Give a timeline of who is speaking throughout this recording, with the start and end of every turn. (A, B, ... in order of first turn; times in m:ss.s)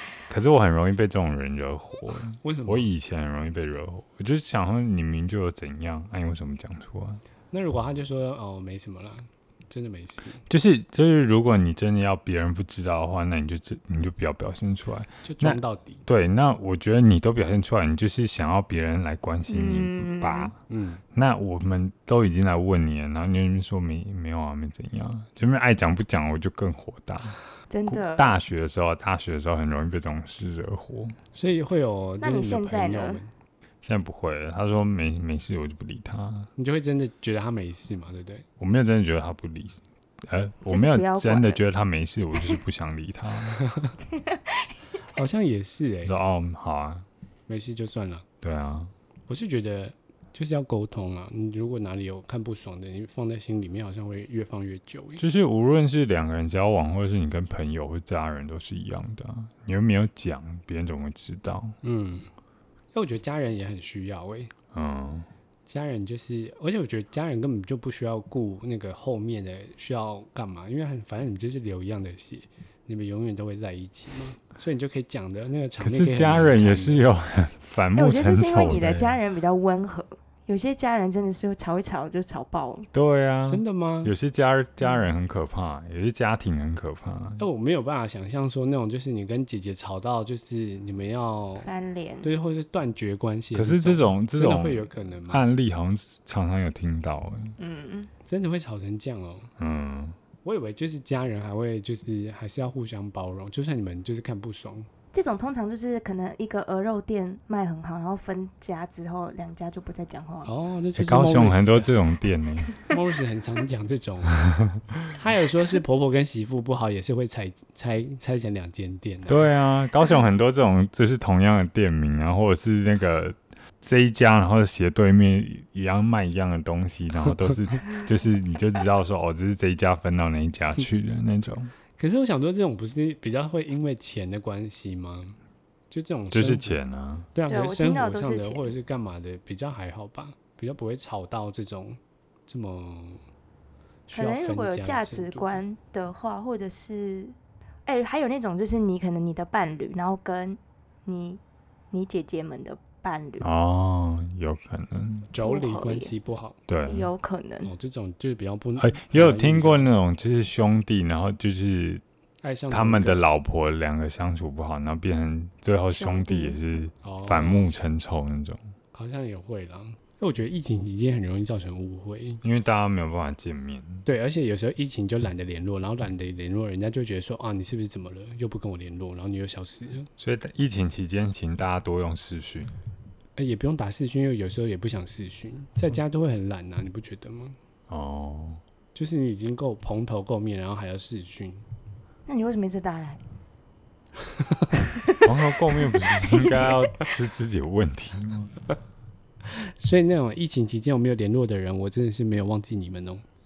0:00.3-0:07.2 A
0:02.4-0:02.9 B
0:07.5-0:10.4 B
0:10.5-0:20.6 A
0:15.2-0:16.0 B
0:19.5-0:20.5 C
0:20.7-0:21.0 B
0:21.1-0:31.1 A
0:27.7-0:28.3 C
0:31.3-0:33.3 B
0:32.2-0:33.2 C
0:33.8-0:36.5 A
0:36.6-0:38.4 B
0:38.6-0:43.6 A
0:40.7-0:41.6 C
0:44.1-0:45.2 C
0:45.0-0:46.1 B
0:46.0-0:47.1 A
0:47.5-0:48.2 B
0:48.4-0:48.9 A
0:49.3-0:55.2 B
0:55.2-1:01.8 A
1:01.8-1:02.3 B
1:02.9-1:04.5 B
1:04.7-1:05.3 A
1:05.6-1:17.1 B
1:15.8-1:19.2 A
1:17.9-1:22.9 C
1:22.9-1:27.4 A
1:23.5-1:24.1 B
1:24.8-1:25.1 C
1:27.4-1:31.7 B
1:31.6-1:32.3 C
1:32.2-1:35.4 B
1:33.5-1:37.6 A
1:37.6-1:38.1 C
1:38.2-1:39.5 B
1:39.6-1:40.2 A
1:40.4-1:44.9 B
1:45.1-1:50.5 C
1:50.4-1:51.9 B
1:51.0-1:52.7 A
1:52.8-1:54.4 B
1:55.1-1:59.5 B
1:59.3-2:11.7 A
2:12.0-2:15.4 B
2:15.9-2:16.8 B
2:16.3-2:17.3 A
2:17.3-2:23.2 B
2:17.5-2:18.7 C
2:24.1-2:25.6 B
2:24.1-2:31.4 C
2:31.9-2:33.5 C
2:33.4-2:35.3 A
2:35.3-2:36.6 B
2:35.4-2:36.1 C
2:36.7-2:37.1 A
2:36.8-2:37.7 C
2:37.6-2:39.9 B
2:38.8-2:42.0 A
2:42.4-2:43.2 B
2:42.7-2:48.6 A
2:45.9-2:46.6 C
2:47.0-2:47.7 B
2:48.9-2:52.4 B
2:52.4-2:54.0 A
2:54.0-3:00.1 B
3:00.2-3:02.7 A
3:03.4-3:07.6 B
3:07.9-3:08.6 A
3:08.9-3:11.6 B
3:12.3-3:13.2 C
3:15.2-3:18.5 A
3:16.2-3:16.9 C
3:19.8-3:23.2 B